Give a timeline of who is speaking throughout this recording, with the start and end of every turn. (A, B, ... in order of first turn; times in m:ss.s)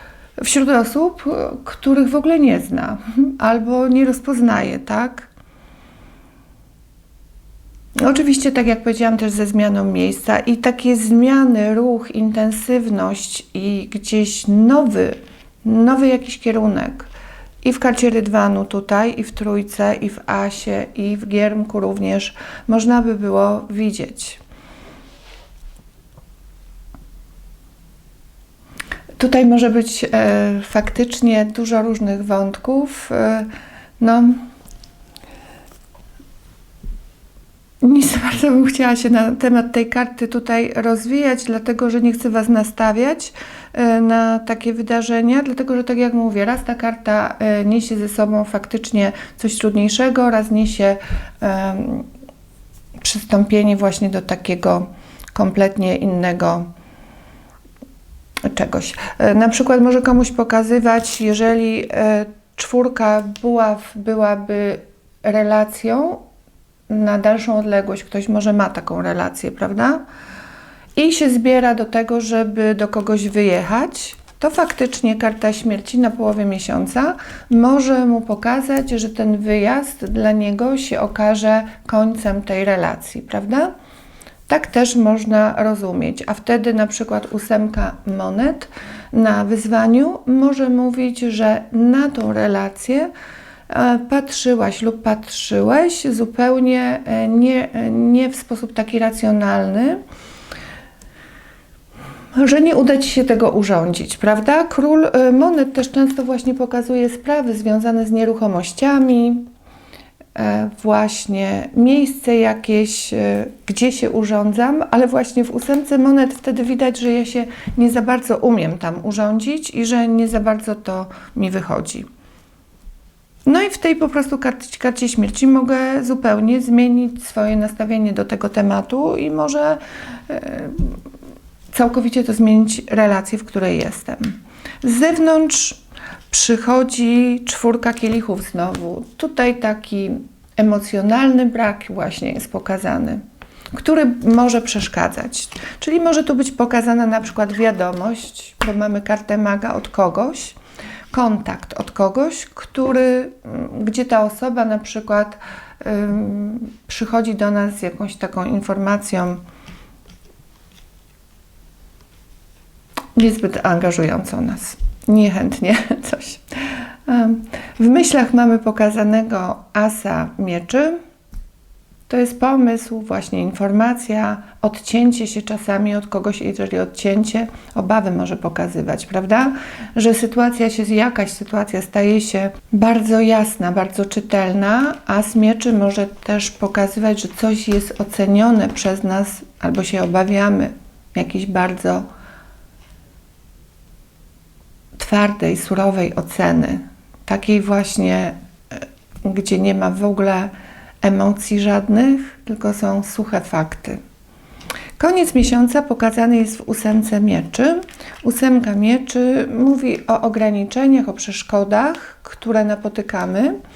0:00.4-0:05.3 A
0:08.0-0:17.1 A
0:17.6-0:24.4 A
0:29.2-0:33.5 A
0:34.0-0:34.4 A
0:37.8-0:52.1 A
0:53.0-0:56.7 A
0:58.4-1:06.2 A
1:06.9-1:10.0 A
1:11.0-1:23.7 A
1:24.5-1:33.1 A
1:33.7-1:40.0 A
1:42.4-1:49.4 A
1:50.4-2:02.1 A
2:03.5-2:11.0 A
2:11.7-2:23.2 A
2:23.7-2:30.6 A
2:31.1-2:39.4 A
2:43.2-2:46.4 A
2:47.1-2:51.0 A
2:52.1-3:12.1 A
3:15.0-3:20.5 A
3:21.0-3:24.0 A
3:25.0-3:33.6 A